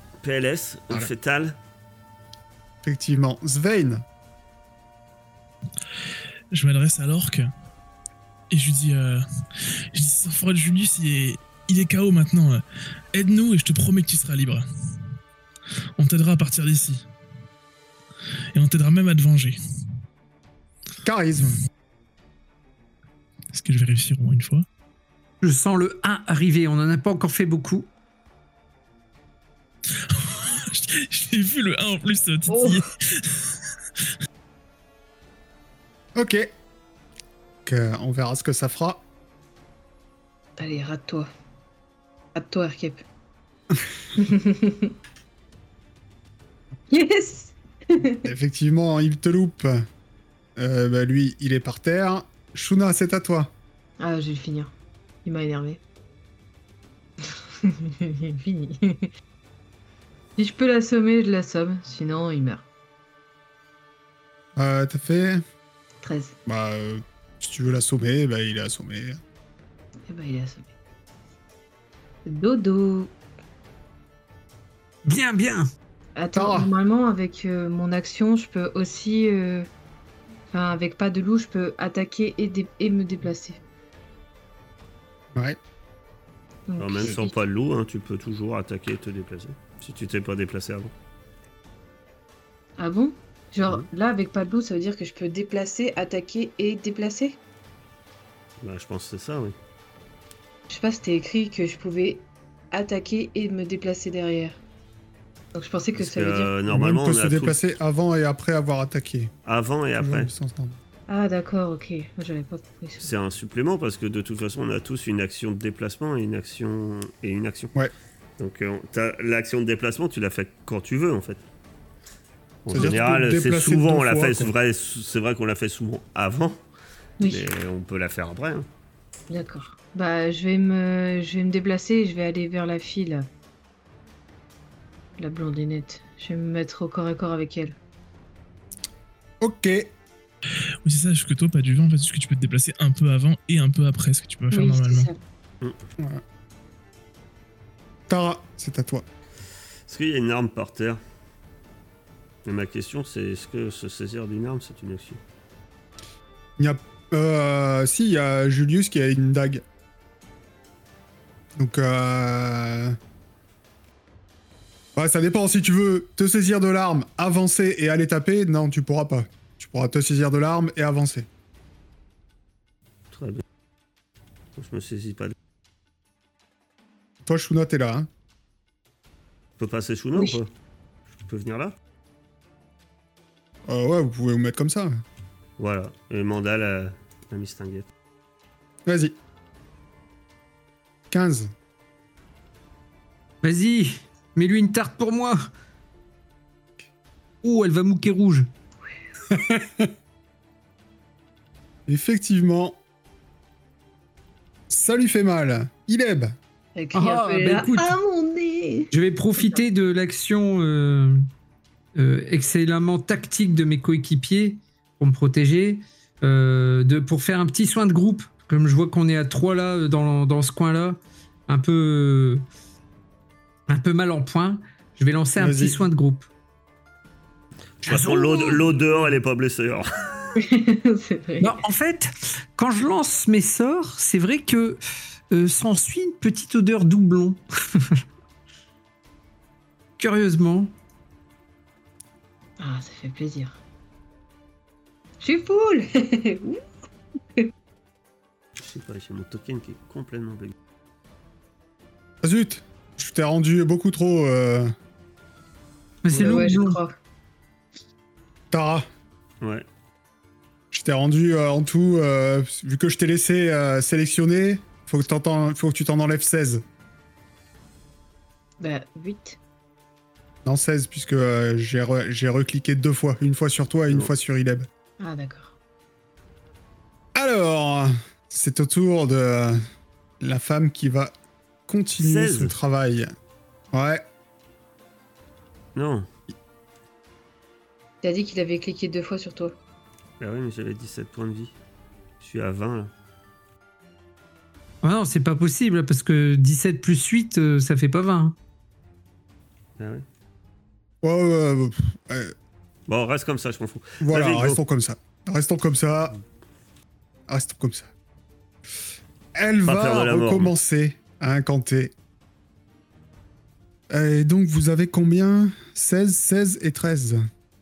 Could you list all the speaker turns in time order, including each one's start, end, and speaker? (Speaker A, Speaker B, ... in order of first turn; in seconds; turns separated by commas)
Speaker A: 0.2-1.6, Speaker B: 2.8-4.0, Speaker C: 6.5-7.5, Speaker C: 8.5-9.2, Speaker C: 9.9-14.6, Speaker C: 16.0-17.1, Speaker C: 18.5-19.6, Speaker B: 21.0-21.6, Speaker C: 23.5-24.6, Speaker D: 25.4-27.9, Speaker C: 29.9-33.6, Speaker E: 32.5-32.8, Speaker B: 36.1-36.5, Speaker B: 37.6-39.0, Speaker E: 40.6-41.3, Speaker E: 42.3-43.0, Speaker E: 44.1-44.9, Speaker E: 46.9-48.3, Speaker B: 48.2-49.9, Speaker B: 50.6-53.5, Speaker E: 54.0-54.7, Speaker E: 55.2-55.8, Speaker E: 57.3-59.1, Speaker E: 60.4-62.6, Speaker B: 64.5-65.4, Speaker E: 66.0-66.3, Speaker B: 66.5-69.2, Speaker E: 70.1-70.7, Speaker E: 72.2-73.1, Speaker D: 75.0-75.7, Speaker E: 76.2-79.7, Speaker B: 76.3-76.7, Speaker E: 80.5-83.6, Speaker E: 86.7-87.4, Speaker A: 86.8-90.9, Speaker E: 92.8-97.4, Speaker A: 98.6-99.5, Speaker E: 100.7-104.6, Speaker E: 105.5-106.5, Speaker A: 106.0-107.7, Speaker B: 106.7-109.3, Speaker A: 109.4-110.3, Speaker B: 110.0-110.8, Speaker E: 111.1-113.1, Speaker A: 113.0-117.7, Speaker A: 118.4-121.4, Speaker A: 122.6-126.6, Speaker B: 122.7-124.5, Speaker E: 127.2-127.5, Speaker A: 127.2-128.7, Speaker E: 129.3-133.3, Speaker E: 135.2-137.8, Speaker B: 139.4-139.9, Speaker C: 140.8-145.1, Speaker E: 144.5-145.2, Speaker B: 148.1-149.0, Speaker A: 149.9-151.0, Speaker A: 152.4-155.2, Speaker B: 156.6-159.6, Speaker B: 161.6-163.0, Speaker B: 164.9-171.3, Speaker A: 173.1-173.4, Speaker A: 174.6-175.3, Speaker B: 177.2-178.1, Speaker A: 179.6-180.5, Speaker A: 181.2-181.7, Speaker B: 183.7-185.0, Speaker A: 185.6-187.9, Speaker B: 188.8-189.2, Speaker B: 191.1-191.5, Speaker D: 193.4-195.4, Speaker D: 197.4-198.5, Speaker B: 199.3-199.9, Speaker B: 201.9-202.8, Speaker B: 204.7-206.4, Speaker E: 206.7-209.6, Speaker D: 206.9-207.9, Speaker D: 208.9-211.2, Speaker D: 211.9-222.4, Speaker D: 223.7-226.3, Speaker B: 225.4-225.8, Speaker A: 227.8-230.3, Speaker D: 227.8-228.7, Speaker E: 230.3-231.6, Speaker D: 231.4-238.0, Speaker D: 240.0-240.7, Speaker E: 242.6-243.6, Speaker E: 245.2-246.6, Speaker A: 248.6-250.5, Speaker B: 252.2-254.7, Speaker D: 256.0-256.8, Speaker E: 256.1-256.9, Speaker B: 258.5-258.9, Speaker A: 259.4-259.6, Speaker B: 260.7-266.6, Speaker E: 268.6-269.4, Speaker B: 270.4-274.7, Speaker E: 275.0-275.6, Speaker B: 277.1-279.6, Speaker B: 280.2-281.1, Speaker B: 281.7-283.1, Speaker A: 282.0-282.5, Speaker B: 283.7-284.0, Speaker A: 285.7-286.1, Speaker E: 288.0-289.5, Speaker A: 290.2-291.5, Speaker A: 292.2-292.9, Speaker D: 294.8-298.3, Speaker A: 299.8-300.0, Speaker B: 301.0-302.3, Speaker A: 302.9-304.6, Speaker B: 304.0-306.1, Speaker B: 307.3-307.9, Speaker B: 309.3-311.9, Speaker A: 309.6-310.5, Speaker B: 313.9-317.2